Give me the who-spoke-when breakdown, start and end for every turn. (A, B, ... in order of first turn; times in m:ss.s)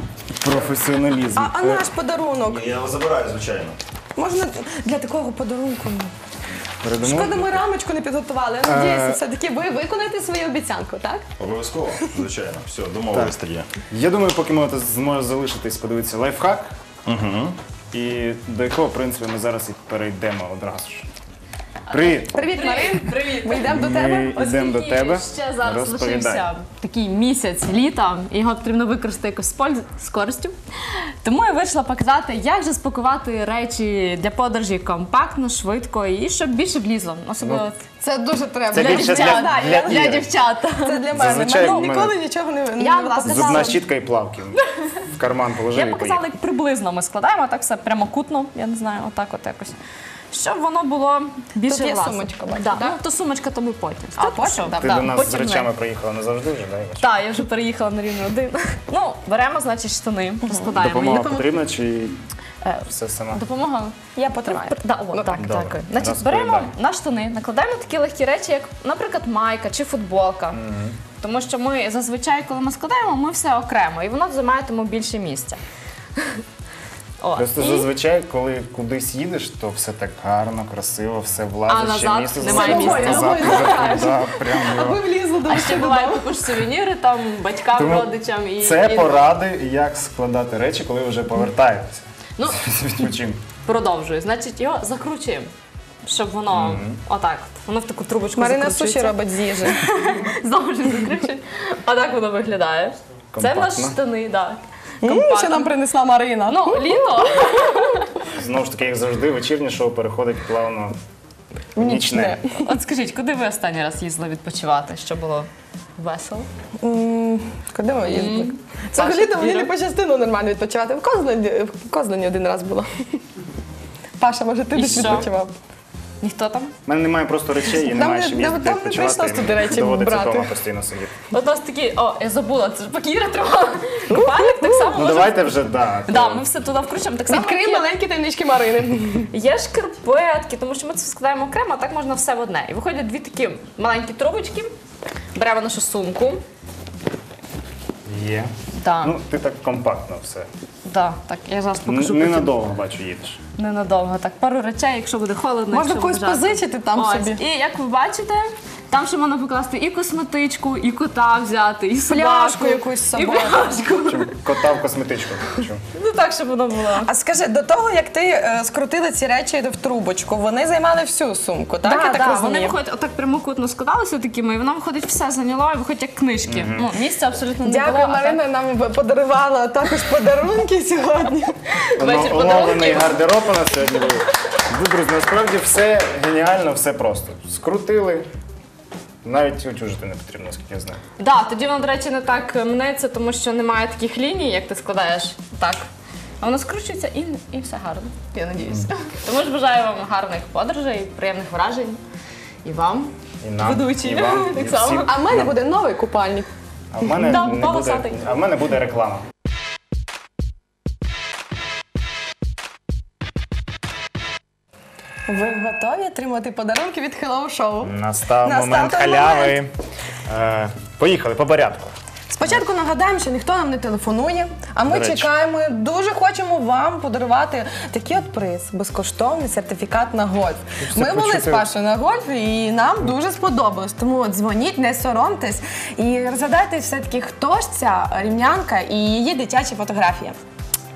0:00.4-0:01.9 A
0:01.4-0:02.6 B
0:02.4-0:03.8 C
0:04.2-0:06.1 B
0:06.8-0:07.6 A
0:07.0-0:11.3 B
0:08.6-0:09.2 A
0:11.4-0:13.7 C
0:13.9-0:16.7 A
0:17.1-0:17.6 C
0:17.9-0:21.1 A
0:21.9-0:22.3 A
0:21.9-0:30.6 D
0:22.3-0:24.4 B
0:23.6-0:26.5 A
0:31.2-0:37.8 D
0:38.0-0:43.8 B
0:38.7-0:40.3 A
0:38.8-0:41.9 D
0:41.2-0:42.2 A
0:42.8-0:43.8 D
0:43.2-0:44.6 A
0:45.1-0:46.2 A
0:45.8-0:49.8 D
0:50.3-0:55.7 D
0:51.7-0:53.0 B
0:54.2-0:55.1 B
0:54.8-0:57.1 A
0:57.0-1:01.5 D
1:00.8-1:02.2 A
1:02.6-1:10.6 D
1:02.8-1:03.4 A
1:04.2-1:05.4 B
1:05.4-1:06.7 A
1:10.5-1:11.0 A
1:11.2-1:15.6 D
1:17.2-1:17.9 D
1:17.4-1:25.1 A
1:21.7-1:24.1 D
1:22.4-1:26.5 B
1:25.5-1:29.2 D
1:27.7-1:33.4 A
1:33.6-1:35.5 D
1:36.0-1:45.7 D
1:36.5-1:37.0 A
1:38.4-1:39.8 B
1:43.3-1:44.0 A
1:45.0-1:47.8 B
1:46.5-1:48.1 D
1:48.3-1:51.0 A
1:51.8-1:52.4 A
1:51.8-1:52.6 B
1:52.6-1:56.5 D
1:56.8-2:03.2 B
1:58.0-1:59.7 D
2:04.2-2:05.5 B
2:04.7-2:05.3 D
2:06.2-2:06.7 D
2:06.9-2:11.2 A
2:07.8-2:10.6 B
2:11.3-2:15.5 D
2:14.1-2:15.1 B
2:15.0-2:16.5 A
2:16.1-2:17.9 D
2:17.3-2:19.3 B
2:19.3-2:24.7 D
2:25.4-2:26.4 D
2:28.1-2:30.5 A
2:28.8-2:29.2 D
2:30.8-2:32.5 D
2:31.9-2:33.4 A
2:33.6-2:44.4 D
2:35.7-2:37.4 B
2:42.1-2:43.8 B
2:44.0-2:45.8 A
2:46.0-2:47.1 D
2:47.0-2:52.8 B
2:51.8-2:58.4 D
2:56.5-2:56.9 A
2:57.6-3:01.6 B
3:01.8-3:03.2 D
3:02.0-3:08.3 A
3:09.2-3:11.0 A
3:11.2-3:15.9 D
3:16.4-3:22.0 D
3:22.6-3:25.1 D
3:23.4-3:25.6 A
3:25.0-3:26.5 B
3:26.9-3:29.3 A
3:27.0-3:28.3 D
3:35.3-3:39.6 B
3:37.8-3:39.7 A
3:40.3-3:42.0 A
3:42.3-4:00.4 B
3:44.9-3:45.3 A
3:50.8-3:51.7 A